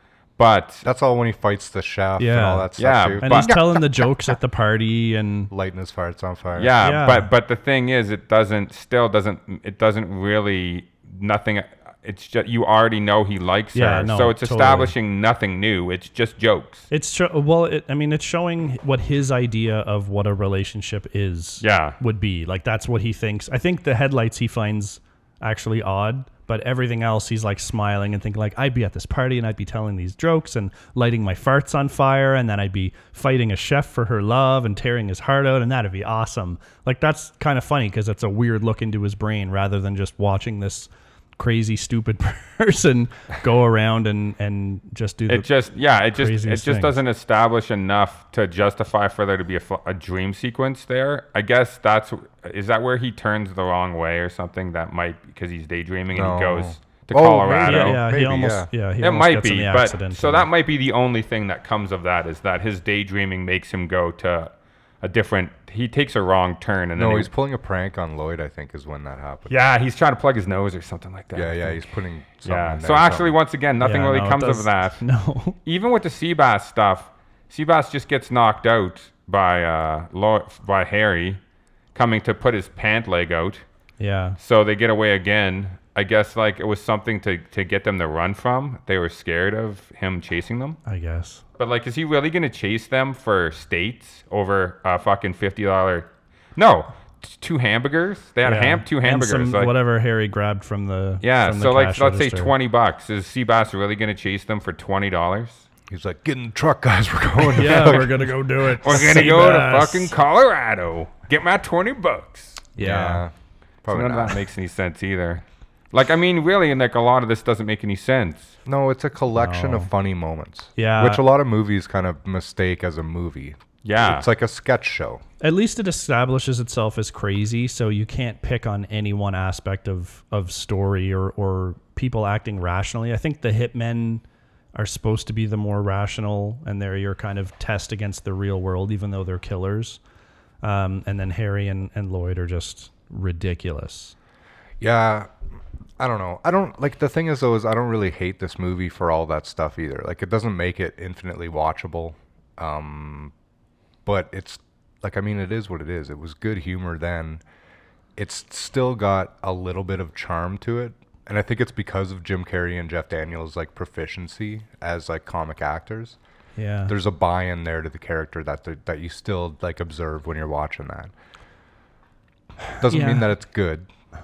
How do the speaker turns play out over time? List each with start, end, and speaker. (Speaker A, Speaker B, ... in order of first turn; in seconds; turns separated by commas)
Speaker A: 0.4-0.8, Speaker B: 0.8-4.3, Speaker C: 2.2-2.7, Speaker A: 2.8-3.6, Speaker C: 3.2-5.5, Speaker B: 5.5-6.7, Speaker A: 6.6-16.9, Speaker C: 6.8-7.3, Speaker C: 13.7-14.9, Speaker C: 16.9-45.5, Speaker A: 21.6-22.0, Speaker A: 45.3-58.0, Speaker C: 46.1-47.0, Speaker B: 56.1-58.7, Speaker C: 57.6-60.5, Speaker A: 59.0-67.3, Speaker B: 67.0-69.5, Speaker A: 69.5-71.8, Speaker B: 71.3-73.3, Speaker A: 72.4-75.0, Speaker C: 73.8-75.6, Speaker A: 75.7-81.4, Speaker A: 82.0-83.6, Speaker C: 84.0-84.4, Speaker A: 84.4-90.8, Speaker C: 90.8-91.4, Speaker A: 91.6-99.7, Speaker C: 98.4-102.5, Speaker A: 101.2-105.7, Speaker B: 105.9-108.3, Speaker C: 107.6-110.1, Speaker A: 107.7-108.1, Speaker A: 108.8-112.7, Speaker C: 112.8-113.2, Speaker B: 112.8-113.3, Speaker B: 113.8-114.4, Speaker A: 113.9-118.5, Speaker B: 118.7-125.2, Speaker C: 119.3-119.9, Speaker C: 120.8-121.2, Speaker A: 123.8-124.3, Speaker C: 125.4-134.2, Speaker C: 134.8-140.0, Speaker C: 140.6-144.2, Speaker B: 144.8-145.3, Speaker B: 146.0-153.3, Speaker B: 154.1-157.4, Speaker B: 158.2-166.2, Speaker C: 166.6-166.9, Speaker B: 166.9-171.1, Speaker B: 172.8-173.9, Speaker C: 172.8-173.3